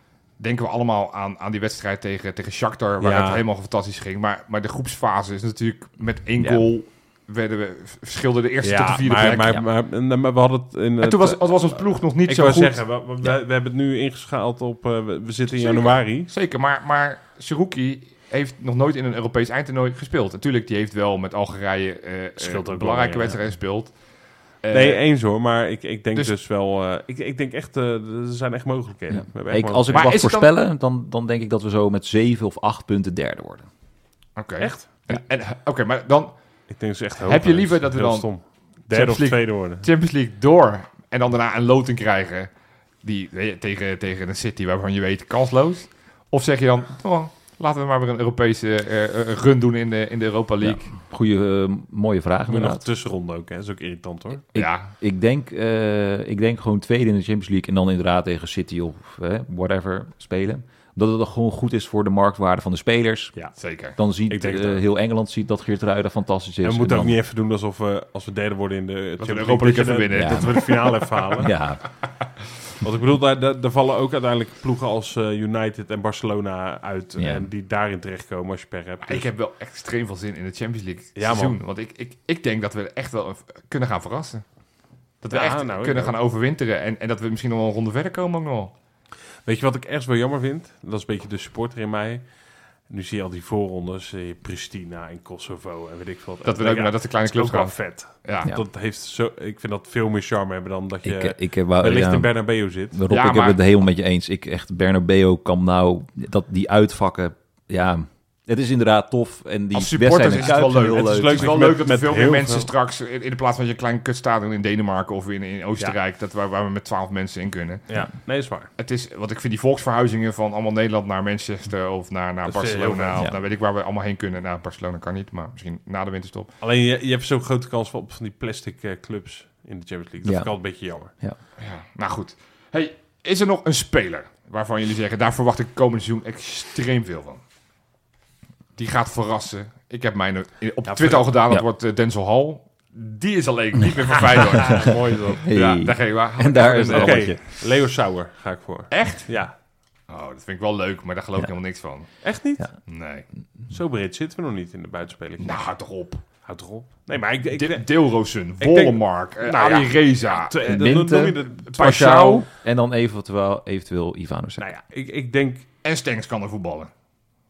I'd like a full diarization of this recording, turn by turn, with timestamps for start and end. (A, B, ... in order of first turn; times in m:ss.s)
0:00.4-0:09.6 A
0:03.0-0:03.4 B
0:06.4-0:06.7 C
0:08.6-0:16.3 B
0:11.0-0:12.8 A
0:15.5-0:24.0 A
0:22.4-0:23.4 B
0:24.6-0:25.0 A
0:24.7-0:30.1 B
0:29.1-0:33.7 C
0:29.9-0:30.5 A
0:34.4-0:36.4 A
0:34.6-0:34.9 B
0:36.7-0:39.8 B
0:37.2-0:38.3 A
0:38.9-0:42.5 A
0:43.0-0:50.9 A
0:50.6-0:52.8 C
0:52.5-0:54.4 B
0:54.5-0:54.9 A
0:54.5-1:03.3 C
1:03.6-1:04.0 A
1:03.9-1:07.2 C
1:04.3-1:04.8 B
1:06.6-1:11.5 B
1:09.2-1:11.2 A
1:10.1-1:10.6 C
1:11.4-1:11.8 C
1:12.8-1:19.3 B
1:17.2-1:17.5 C
1:19.0-1:24.4 A
1:21.2-1:21.6 B
1:25.2-1:28.7 A
1:25.3-1:26.2 B
1:29.4-1:43.0 B
1:36.4-1:38.5 A
1:41.0-1:51.6 C
1:43.1-1:43.6 A
1:49.7-1:57.8 A
1:50.9-1:52.7 B
1:57.9-1:58.7 B
1:58.8-2:06.5 A
2:02.4-2:03.3 B
2:06.6-2:11.1 B
2:10.2-2:11.4 C
2:11.6-2:17.4 A
2:18.8-2:27.3 A
2:20.8-2:21.3 B
2:24.4-2:25.4 B
2:25.4-2:27.4 C
2:26.9-2:29.5 B
2:28.9-2:29.4 A
2:30.1-2:33.2 A
2:32.2-2:32.9 B
2:33.7-2:35.7 B
2:35.4-2:36.2 A
2:36.4-2:42.0 B
2:37.5-2:40.9 A
2:40.6-2:44.6 C
2:41.6-2:42.5 A
2:44.6-2:45.6 B
2:45.8-2:46.9 A